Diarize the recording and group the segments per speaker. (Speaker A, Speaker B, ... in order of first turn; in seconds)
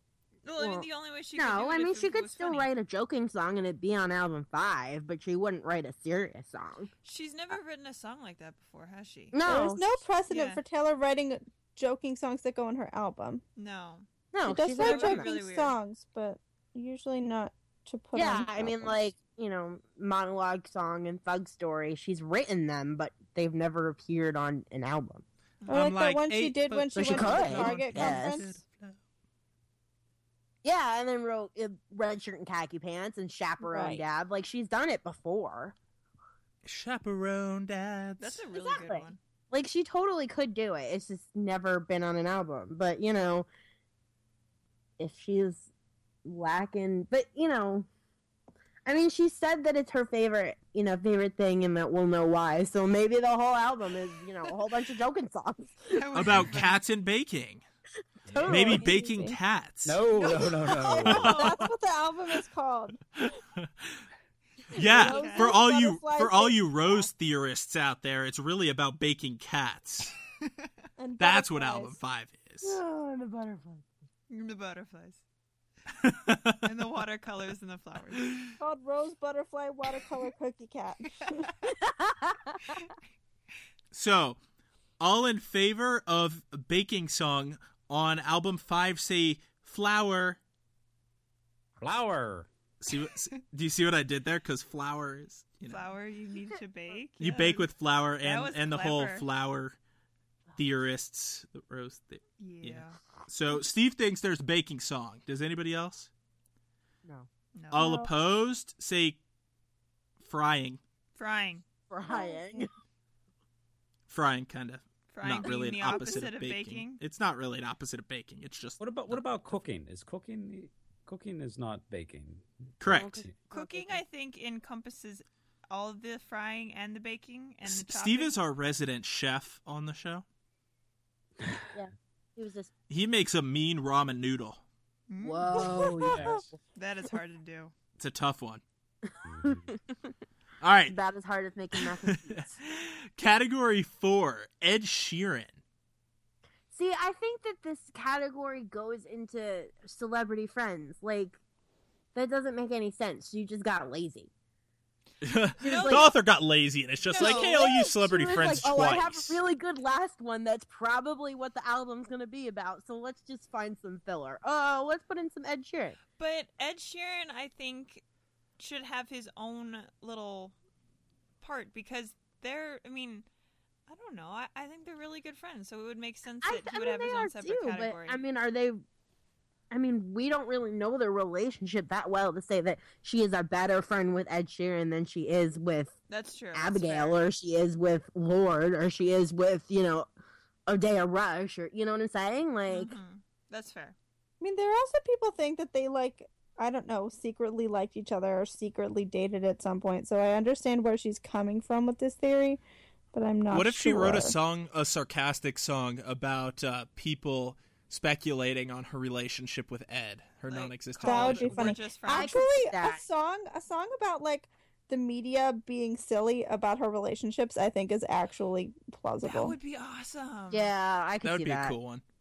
Speaker A: 0.4-2.7, 7.0-9.4, 10.3-10.6, 13.6-14.1, 14.7-15.8, 38.2-39.2, 55.9-56.8, 61.1-61.6, 64.8-65.6, 70.4-70.7, 74.3-75.2, 76.6-78.5, 95.7-97.7, 98.2-99.3, 102.4-103.0, 107.5-107.9, 111.2-111.6, 115.1-117.0, 123.5-128.3, 135.1-136.1, 136.8-137.7, 155.6-156.1, 157.0-157.7, 166.1-168.0, 168.6-170.6, 171.4-173.3, 173.9-178.2, 186.1-187.2, 192.7-194.0, 210.5-212.4, 219.2-220.7
Speaker B: 0.6-6.9, 9.3-10.0, 14.3-15.3, 18.1-25.2, 27.0-28.4, 30.6-35.8, 38.5-43.5, 45.0-45.7, 46.2-47.9, 48.9-56.3, 58.3-58.8, 72.6-73.9, 81.8-82.7, 107.0-108.0, 111.9-112.7, 115.9-116.2, 122.9-124.0, 131.7-132.7, 135.2-136.4, 139.1-139.9, 140.9-142.6, 146.7-151.4, 152.1-154.3, 155.6-156.1, 157.2-166.0, 176.4-178.8, 179.7-185.9, 186.5-190.1, 190.7-193.0, 212.1-213.0, 220.5-221.8
Speaker C: 9.4-13.4, 14.5-19.0, 25.7-28.6, 33.6-34.0, 58.5-59.4, 60.9-63.0, 64.7-67.1, 71.0-72.0, 78.6-81.5, 112.1-112.7, 135.6-135.9, 194.4-202.6, 203.1-204.4, 211.0-219.6
Speaker D: 25.7-29.0, 36.6-38.4, 56.1-57.6, 58.5-60.0, 61.0-61.5, 63.2-64.0, 64.7-70.2, 71.2-72.8, 76.0-76.7, 78.3-78.5, 83.9-84.4, 85.0-90.4, 92.8-95.9, 97.2-99.8, 100.6-106.1, 107.7-109.2, 110.2-110.8, 114.1-119.2, 122.8-123.2, 127.7-130.2, 132.9-134.6, 138.0-138.6, 140.6-140.9, 141.8-145.6, 155.2-159.4, 203.5-211.7, 221.2-222.0
Speaker E: 58.3-58.8, 59.9-61.5, 91.8-92.5, 118.8-123.3, 131.4-131.7, 136.0-136.6, 139.3-139.7